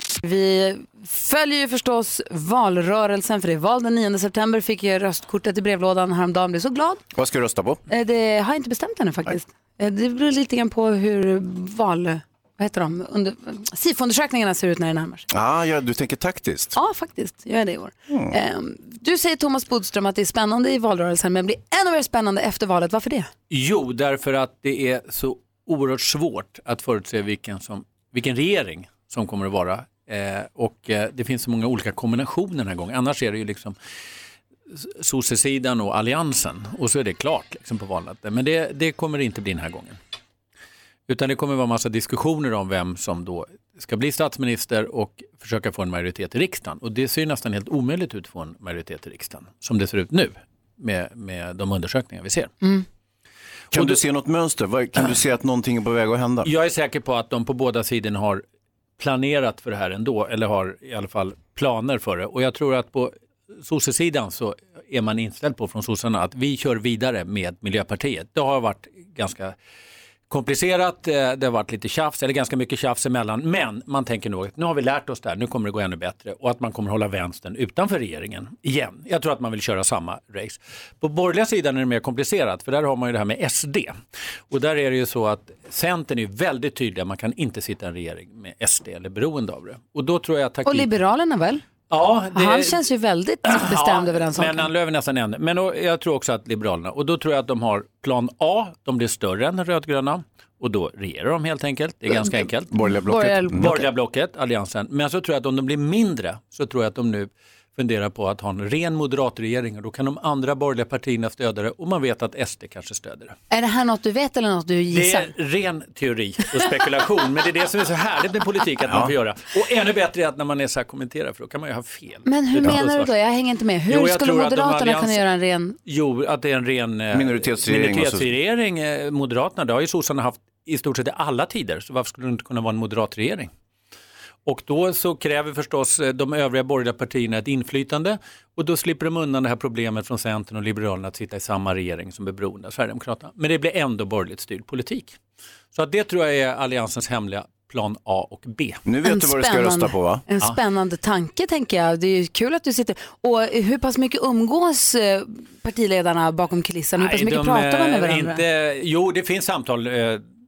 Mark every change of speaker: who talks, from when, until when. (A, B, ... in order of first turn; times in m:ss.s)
0:00.2-0:07.0 A
0:07.1-0:07.8 B
0:07.9-0:15.2 A
0:15.3-0:16.8 B
0:16.7-0:23.3 A
0:23.5-0:33.7 C
0:34.7-0:40.0 C
0:41.1-0:52.5 C
0:53.7-0:56.5 B
0:53.7-0:54.0 C
0:56.4-0:58.4 C
0:59.0-1:09.5 C
1:10.3-1:24.0 C
1:24.5-1:30.9 C
1:30.6-1:31.6 A
1:31.9-1:32.8 C
1:32.3-1:34.7 A
1:33.4-1:42.8 C
1:42.7-1:43.8 B
1:43.0-1:43.9 A
1:43.5-1:53.4 C
1:53.5-1:55.3 A
1:54.9-2:03.1 C
1:58.9-1:59.1 B
2:02.2-2:05.8 A
2:03.9-2:05.2 C
2:05.8-2:13.5 C
2:07.1-2:08.3 B
2:14.4-2:25.2 C
2:25.7-2:28.8 C
2:28.8-2:30.2 B
2:29.0-2:38.4 A
2:37.0-2:40.2 C